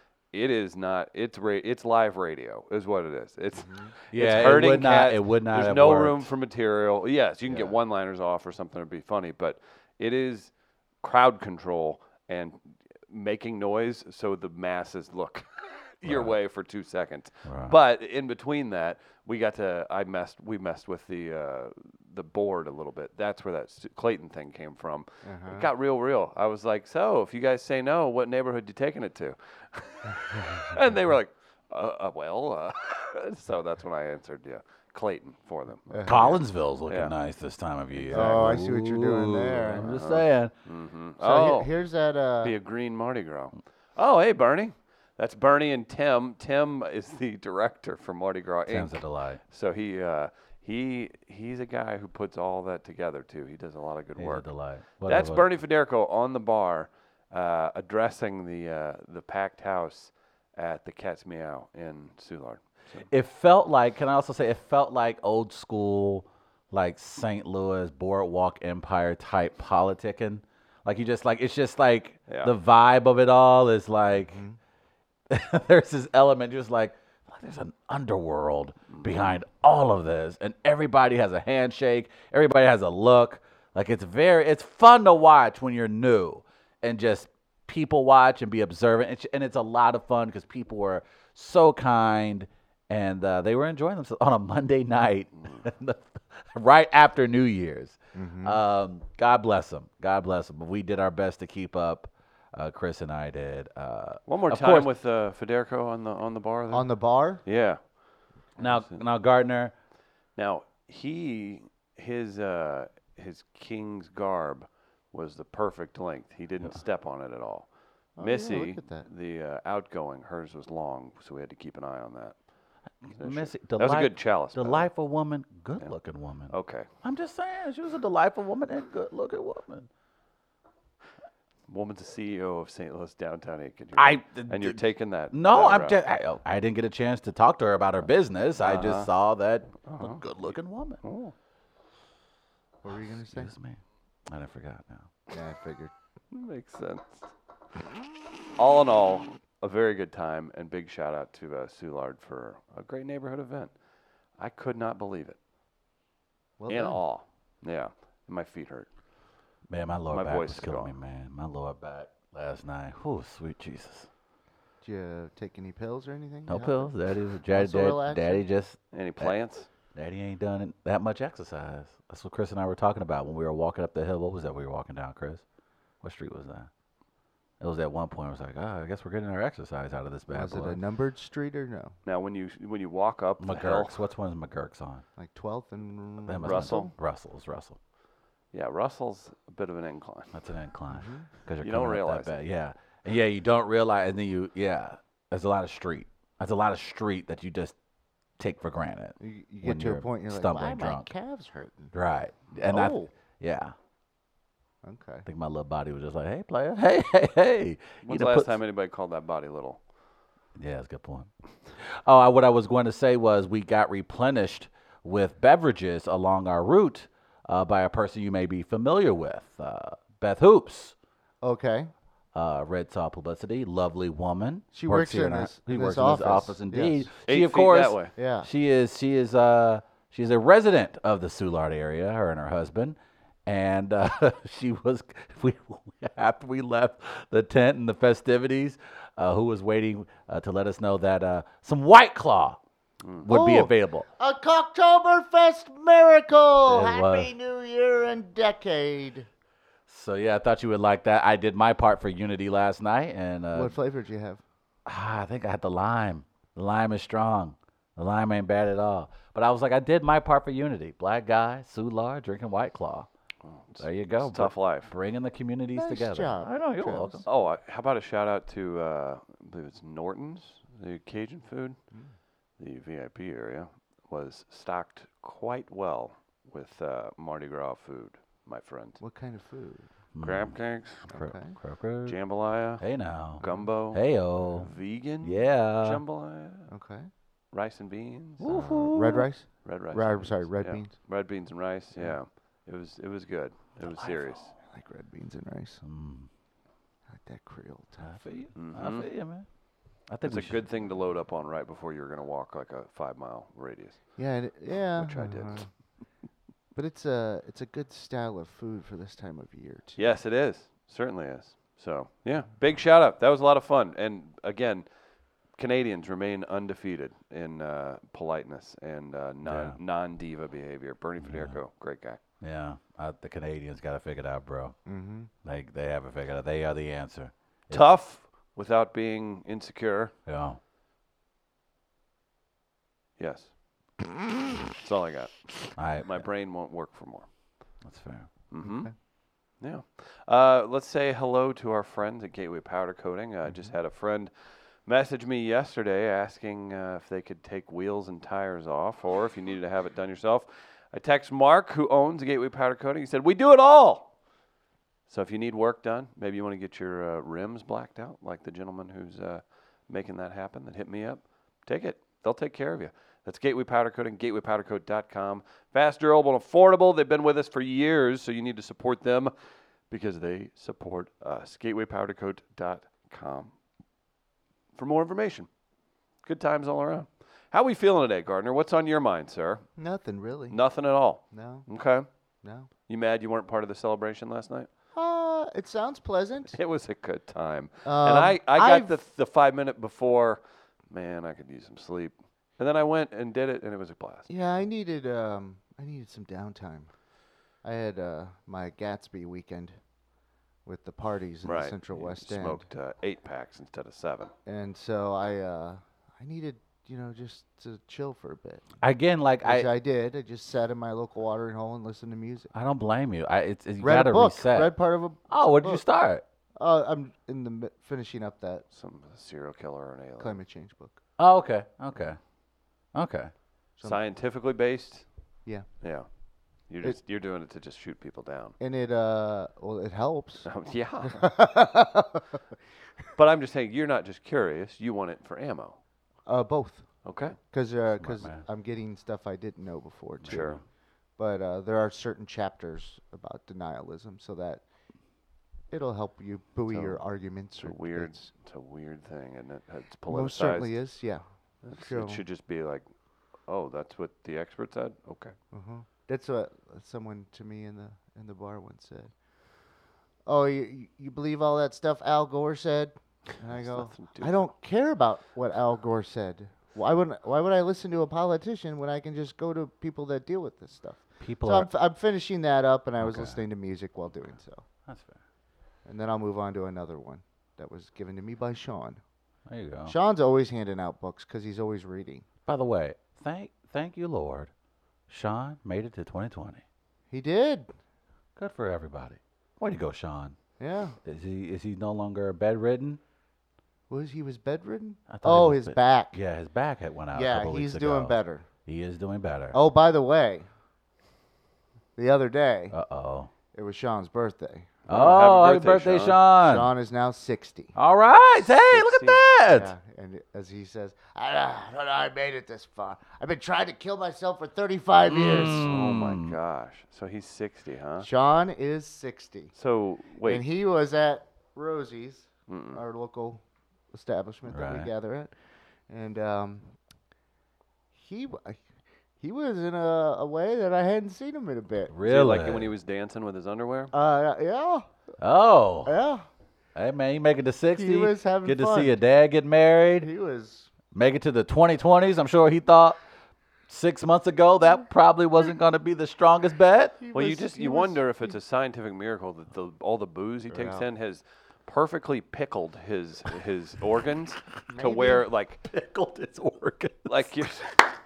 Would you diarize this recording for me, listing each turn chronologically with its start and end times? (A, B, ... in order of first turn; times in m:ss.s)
0:00.3-0:37.1 A
0:03.6-0:03.9 B
0:04.1-0:06.3 C
0:16.0-0:16.3 C
0:17.4-0:17.8 C
0:25.2-0:25.7 B
0:35.9-0:36.3 B
0:36.0-0:40.5 C
0:38.0-0:38.6 A
0:38.1-0:40.0 B
0:39.8-0:41.7 A
0:41.2-0:42.5 B
0:42.4-0:54.5 A
0:48.7-0:49.4 C
0:54.2-0:55.4 C
0:55.0-1:03.0 A
1:03.0-1:14.4 C
1:12.3-1:12.5 A
1:14.3-1:14.6 B
1:15.3-1:44.9 C
1:18.9-1:19.3 A
1:35.4-1:35.6 A
1:38.1-1:38.6 B
1:44.3-1:46.9 A
1:46.7-1:47.4 B
1:47.4-1:47.8 A
1:48.6-1:49.7 C
1:48.6-1:49.0 A
1:50.4-2:02.4 A
1:58.2-1:59.0 B
2:03.0-2:09.9 C
2:03.1-2:04.9 A
2:06.5-2:06.9 A
2:11.7-2:16.0 A
2:14.0-2:14.8 C
2:15.3-2:21.0 C
2:18.6-2:19.1 A
2:19.8-2:20.4 A
2:21.0-2:21.3 A
2:22.8-2:23.5 B
2:23.2-2:25.1 C
2:25.3-2:25.9 B
2:26.3-2:27.3 A
2:28.6-2:33.7 A
2:34.4-2:35.4 A
2:36.6-2:37.0 B
2:36.7-2:38.9 A
2:39.7-2:44.1 C
2:40.1-2:40.9 A
2:44.8-2:46.9 B
2:46.5-2:49.3 C
2:47.5-2:48.4 B
2:48.9-2:49.7 A
2:49.9-2:55.4 C
2:56.0-2:56.7 C
2:57.6-3:00.8 C
3:00.3-3:01.9 B
3:02.0-3:03.9 A
3:03.4-3:05.0 C
3:05.2-3:06.9 B
3:06.2-3:07.8 C
3:06.4-3:06.9 A
3:08.5-3:10.3 A
3:10.3-3:17.7 C
3:10.9-3:11.3 B
3:11.6-3:12.3 A
3:18.4-3:21.1 C
3:19.2-3:21.9 B
3:21.9-3:23.7 C
3:22.6-3:23.1 B
3:24.8-3:25.2 B
3:25.2-3:28.6 C
3:28.0-3:29.8 A
3:30.6-3:40.9 C
3:41.4-3:41.9 B
3:42.3-4:02.6 C
3:44.7-3:47.1 B
3:47.3-3:48.1 A
3:48.2-3:48.5 B
4:03.2-4:04.1 C
4:03.3-4:09.3 B
4:06.7-4:07.3 C
4:09.9-4:13.7 C
4:13.5-4:14.4 B
4:14.8-4:23.1 C
4:23.4-4:24.9 A
4:23.8-4:27.2 C
4:25.7-4:27.2 B
4:27.2-4:31.8 A
4:32.6-4:39.0 A
4:39.0-4:39.9 B
4:40.1-4:42.2 C
4:40.2-4:41.1 A
4:41.1-4:41.6 B
4:42.0-4:46.7 A
4:42.8-4:46.0 C
4:43.4-4:43.7 B
4:46.7-4:47.1 B
4:47.5-4:48.6 A
4:48.4-4:49.3 C
4:48.5-4:50.9 B
4:49.6-4:54.5 A
4:53.8-4:54.2 C
4:54.6-4:55.8 B
4:55.8-4:56.3 C
4:57.1-4:58.2 B
4:58.0-4:59.5 C
4:58.5-4:59.1 A
5:00.1-5:00.6 C
5:00.2-5:04.2 A
5:04.2-5:05.7 B
5:04.9-5:05.7 A
5:06.7-5:10.0 B
5:10.0-5:14.8 A
5:15.5-5:22.2 A
5:19.4-5:19.8 C
5:21.2-5:21.6 C
5:22.4-5:24.8 C
5:24.8-5:25.3 B
5:25.4-5:27.8 C
5:27.7-5:30.1 A
5:30.2-5:30.6 C
5:33.2-5:33.5 A
5:34.8-5:37.3 A
5:35.8-5:36.2 C
5:37.8-5:38.3 C
5:38.5-5:38.9 A
5:38.6-5:38.9 B
5:39.6-5:44.3 A
5:44.8-5:54.1 A
5:55.1-6:09.3 A
6:09.9-6:13.5 A
6:14.7-6:15.5 A
6:16.2-6:19.6 A
6:19.8-6:20.6 B
6:20.5-6:22.1 A
6:21.3-6:21.7 B
6:22.4-6:22.7 B
6:22.9-6:24.7 A
6:24.9-6:26.6 B
6:26.5-6:34.3 A
6:27.8-6:29.0 B
6:34.3-6:36.9 B
6:37.6-6:39.8 B
6:40.6-6:42.6 B
6:41.4-6:44.3 A
6:44.4-6:48.6 B
6:48.8-6:49.7 C
6:49.4-6:52.5 B
6:52.5-6:54.7 C
6:53.8-6:55.8 B
6:55.3-6:56.2 C
6:56.6-6:58.6 B
6:58.7-7:00.4 A
7:00.2-7:01.0 B
7:01.2-7:02.2 C
7:02.9-7:03.3 C
7:03.8-7:05.1 A
7:05.8-7:06.1 A
7:06.6-7:08.5 A
7:08.6-7:10.5 B
7:10.4-7:11.3 A
7:11.0-7:12.4 B
7:13.2-7:15.8 A
7:16.2-7:20.5 B
7:17.0-7:17.4 A
7:17.9-7:18.4 C
7:20.2-7:20.6 C
7:20.3-7:20.6 A
7:21.2-7:24.6 B
7:25.7-7:28.3 B
7:26.7-7:27.0 A
7:27.6-7:30.8 A
7:30.1-7:32.2 B
7:31.6-7:32.8 A
7:33.4-7:35.3 A
7:35.5-7:39.1 B
7:40.2-7:54.6 B
7:43.5-7:44.5 A
7:51.2-7:51.7 C
7:53.0-7:53.4 C
7:54.9-7:55.2 C
7:55.8-7:59.0 B
7:59.5-7:59.9 C
7:59.8-8:02.2 B
8:02.5-8:04.5 C
8:05.1-8:06.6 C
8:07.1-8:07.7 B
8:08.4-8:10.4 C
8:10.6-8:11.0 B
8:11.0-8:13.0 C
8:13.9-8:16.2 B
8:15.1-8:19.6 C
8:17.1-8:18.4 B
8:19.5-8:20.5 B
8:22.0-8:22.8 B
8:22.7-8:23.3 C
8:23.5-8:24.7 B
8:24.9-8:26.2 A
8:24.9-8:26.7 C
8:26.4-8:27.7 B
8:27.7-8:29.7 C
8:28.7-8:29.2 A
8:29.5-8:35.7 B
8:35.1-8:36.4 C
8:35.1-8:38.1 A
8:38.0-8:39.5 B
8:39.6-8:40.4 A
8:40.2-8:45.3 B
8:42.5-8:42.8 A
8:44.5-8:44.9 C
8:45.9-8:46.8 B
8:47.9-8:48.6 B
8:49.2-8:51.9 B
8:51.9-8:52.7 C
8:52.0-8:53.9 A
8:53.9-8:54.8 B
8:55.2-8:55.9 C
8:55.8-8:56.2 B
8:56.7-9:00.1 C
8:57.7-8:59.0 B
9:00.0-9:00.7 B
9:00.9-9:03.0 C
9:03.7-9:07.0 C
9:07.0-9:08.3 B
9:07.1-9:15.7 A
9:10.5-9:10.8 B
9:14.7-9:15.2 B
9:15.7-9:17.5 C
9:17.0-9:17.8 A